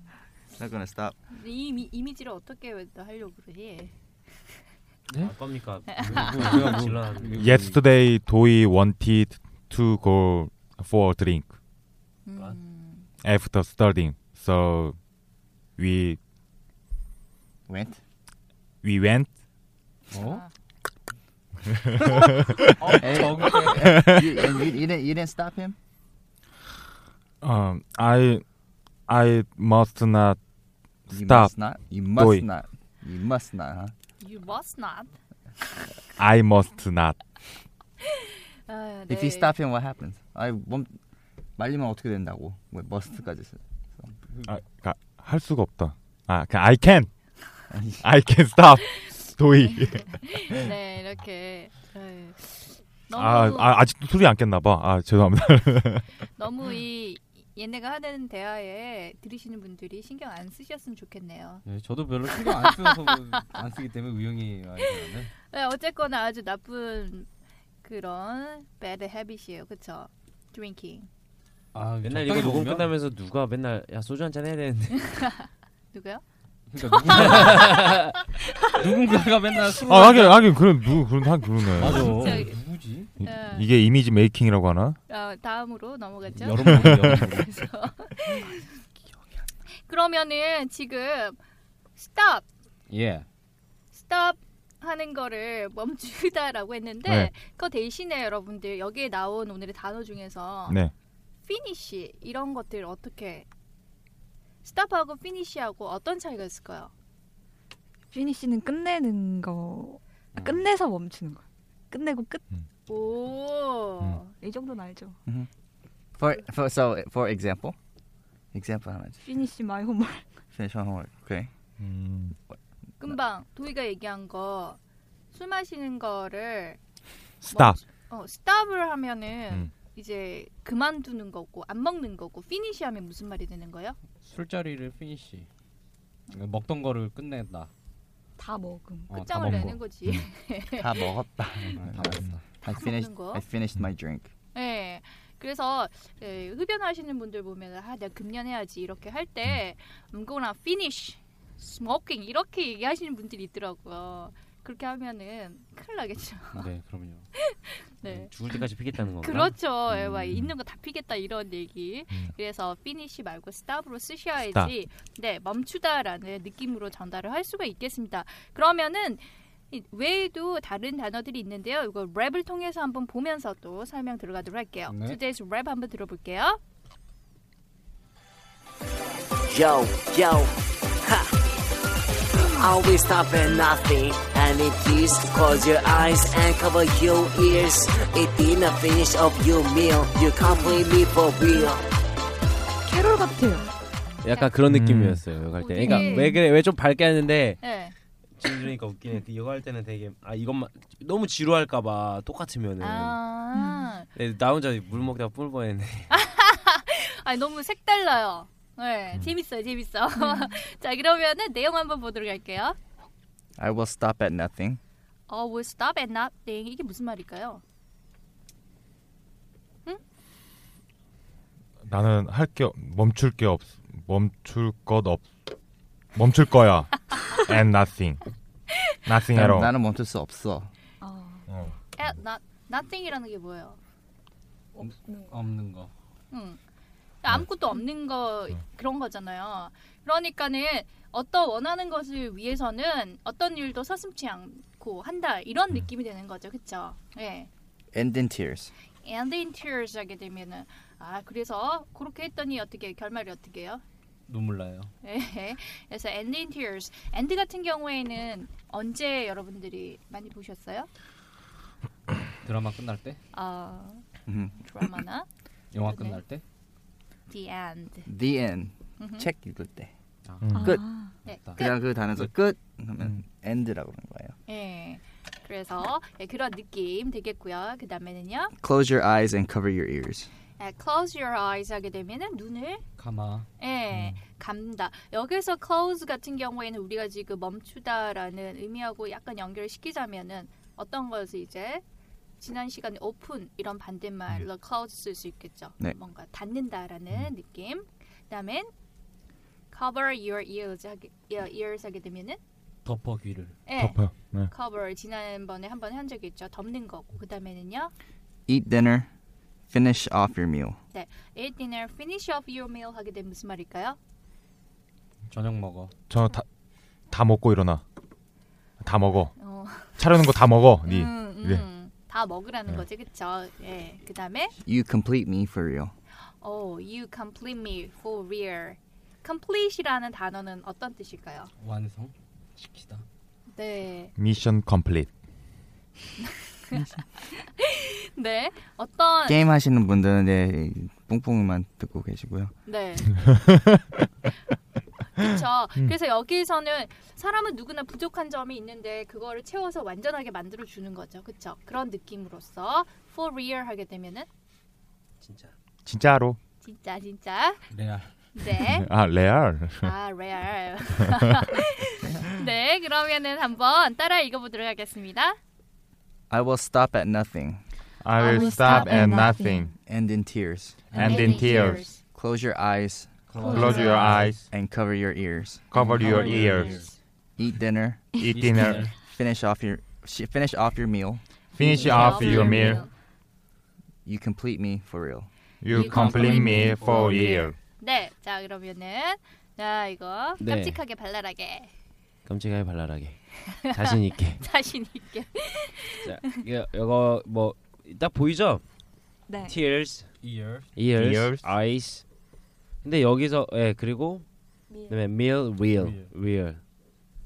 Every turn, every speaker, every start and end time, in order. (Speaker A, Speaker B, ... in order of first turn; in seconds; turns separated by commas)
Speaker A: 0.6-1.1, Speaker B: 1.3-3.9, Speaker C: 5.2-7.5, Speaker D: 5.9-7.8, Speaker E: 7.4-11.6, Speaker B: 12.2-13.1, Speaker E: 13.2-14.9, Speaker E: 15.8-16.2, Speaker A: 17.7-18.0, Speaker E: 18.8-19.3, Speaker D: 20.1-20.4, Speaker E: 21.7-22.1, Speaker D: 22.8-23.9, Speaker A: 22.9-25.8, Speaker E: 23.8-24.3, Speaker E: 27.4-28.4, Speaker E: 29.1-30.4, Speaker E: 31.1-31.6, Speaker A: 31.1-33.9, Speaker E: 32.1-32.5, Speaker B: 34.2-35.1, Speaker E: 36.2-37.2, Speaker B: 38.6-39.5, Speaker A: 39.1-40.9, Speaker A: 41.6-44.1, Speaker D: 44.2-44.5, Speaker E: 44.4-47.3, Speaker A: 47.7-48.0, Speaker E: 48.0-50.2, Speaker B: 49.8-53.8, Speaker E: 53.1-56.1, Speaker B: 56.4-61.6, Speaker D: 61.7-65.3, Speaker B: 62.5-63.4, Speaker B: 65.5-67.3, Speaker B: 67.8-71.1, Speaker D: 71.7-73.0, Speaker C: 72.0-75.2, Speaker B: 75.1-76.2, Speaker D: 76.7-77.9, Speaker B: 76.9-77.5, Speaker C: 77.1-78.0, Speaker D: 78.7-80.6, Speaker E: 79.7-82.5, Speaker D: 81.7-83.1, Speaker B: 81.8-82.6, Speaker E: 83.2-85.0, Speaker B: 83.2-83.7, Speaker B: 85.1-88.7, Speaker D: 86.4-87.5, Speaker E: 86.5-87.1, Speaker B: 89.7-91.4, Speaker B: 92.0-92.5, Speaker D: 92.9-93.3, Speaker B: 93.9-100.8, Speaker E: 97.1-97.3, Speaker B: 101.5-103.5, Speaker B: 104.6-106.9, Speaker F: 108.1-112.4, Speaker D: 110.4-110.6, Speaker B: 112.9-114.3, Speaker F: 114.3-115.2, Speaker A: 116.2-117.8, Speaker A: 118.5-119.2, Speaker F: 119.2-120.3, Speaker A: 120.5-121.5, Speaker E: 121.8-122.3, Speaker B: 123.0-124.8, Speaker B: 125.3-126.8, Speaker E: 127.4-127.8, Speaker B: 127.5-134.0, Speaker D: 134.2-135.5, Speaker D: 136.3-137.7, Speaker F: 138.4-139.2, Speaker D: 139.1-139.8, Speaker B: 139.2-141.1, Speaker E: 139.4-140.2, Speaker A: 140.8-144.3, Speaker D: 141.8-142.4, Speaker B: 142.7-143.4, Speaker B: 144.5-156.7, Speaker D: 156.5-157.2, Speaker B: 157.4-158.6, Speaker C: 158.1-159.6, Speaker B: 159.1-176.6, Speaker E: 159.9-160.5, Speaker D: 174.9-175.2, Speaker G: 179.5-180.5, Speaker G: 182.6-191.8, Speaker F: 192.8-193.7, Speaker C: 194.2-197.8, Speaker E: 194.7-195.2, Speaker B: 195.6-196.4, Speaker F: 195.8-196.4, Speaker B: 197.6-197.9, Speaker C: 198.4-203.2, Speaker B: 202.8-204.1, Speaker F: 203.5-203.9, Speaker C: 204.1-206.1, Speaker B: 206.1-212.8, Speaker A: 213.6-214.8, Speaker B: 215.3-217.6, Speaker E: 221.8-225.3, Speaker E: 226.2-228.2, Speaker E: 229.1-229.7, Speaker A: 229.3-230.7, Speaker F: 231.0-231.4, Speaker E: 231.5-231.7, Speaker B: 231.9-233.8, Speaker F: 234.8-235.4, Speaker D: 234.8-235.9, Speaker B: 236.3-236.6, Speaker B: 237.2-247.5, Speaker A: 247.9-248.7, Speaker B: 249.0-253.8, Speaker D: 254.3-254.9, Speaker B: 255.0-260.9, Speaker D: 262.4-263.2, Speaker B: 263.3-264.0, Speaker A: 264.3-264.6, Speaker B: 264.6-265.3, Speaker D: 265.7-266.4, Speaker B: 265.9-266.2, Speaker B: 267.3-268.1, Speaker A: 268.1-269.9, Speaker B: 269.0-269.3, Speaker D: 270.3-270.6, Speaker E: 270.4-270.7, Speaker F: 270.5-271.1, Speaker A: 270.6-270.9, Speaker D: 271.2-272.3, Speaker B: 271.2-271.8, Speaker A: 271.5-274.4, Speaker B: 274.5-278.5, Speaker A: 278.6-280.3, Speaker B: 280.6-282.9, Speaker D: 283.0-283.5, Speaker B: 283.6-291.8, Speaker B: 292.4-298.7, Speaker B: 299.7-302.4, Speaker D: 302.9-303.6, Speaker B: 303.7-304.0, Speaker E: 303.8-304.5, Speaker B: 304.5-307.9, Speaker A: 308.5-309.1, Speaker A: 309.7-310.8, Speaker B: 310.9-314.0, Speaker D: 315.3-315.9, Speaker E: 316.1-316.5, Speaker E: 317.1-317.8, Speaker E: 318.8-319.3, Speaker B: 319.4-320.1, Speaker E: 320.0-321.6, Speaker B: 320.9-324.6, Speaker A: 324.6-325.9, Speaker B: 326.4-331.5, Speaker D: 331.6-333.0, Speaker B: 333.5-334.1, Speaker E: 334.2-335.1, Speaker B: 336.7-339.4, Speaker A: 339.3-342.5, Speaker B: 342.7-343.2, Speaker B: 345.2-354.3, Speaker C: 355.2-355.5, Speaker E: 355.9-356.4, Speaker B: 356.6-357.7, Speaker D: 357.7-358.1, Speaker B: 358.4-358.9, Speaker E: 358.6-359.9, Speaker B: 359.8-365.4, Speaker A: 366.3-367.6, Speaker E: 368.0-369.7, Speaker F: 368.2-369.7, Speaker B: 368.3-369.1, Speaker A: 369.9-376.4, Speaker E: 370.9-371.9, Speaker B: 371.0-372.0, Speaker D: 373.3-374.5, Speaker F: 373.4-374.0, Speaker E: 373.4-374.4, Speaker E: 375.7-376.8, Speaker D: 375.9-376.9, Speaker F: 375.9-376.8, Speaker A: 377.4-378.2, Speaker E: 378.2-378.8, Speaker D: 378.3-378.9, Speaker A: 379.0-381.2, Speaker B: 381.5-382.9, Speaker E: 381.6-382.8, Speaker F: 382.0-382.8, Speaker A: 384.1-385.3, Speaker E: 385.6-387.6, Speaker B: 385.7-391.7, Speaker D: 385.8-387.4, Speaker C: 390.4-390.8, Speaker C: 392.3-394.4, Speaker B: 394.4-396.3, Speaker C: 396.0-398.6, Speaker F: 399.3-399.6, Speaker C: 399.4-400.1, Speaker D: 400.2-400.8, Speaker C: 400.8-402.1, Speaker E: 400.9-401.5, Speaker C: 402.8-404.3, Speaker F: 404.7-405.0, Speaker C: 404.9-406.6, Speaker D: 405.6-406.1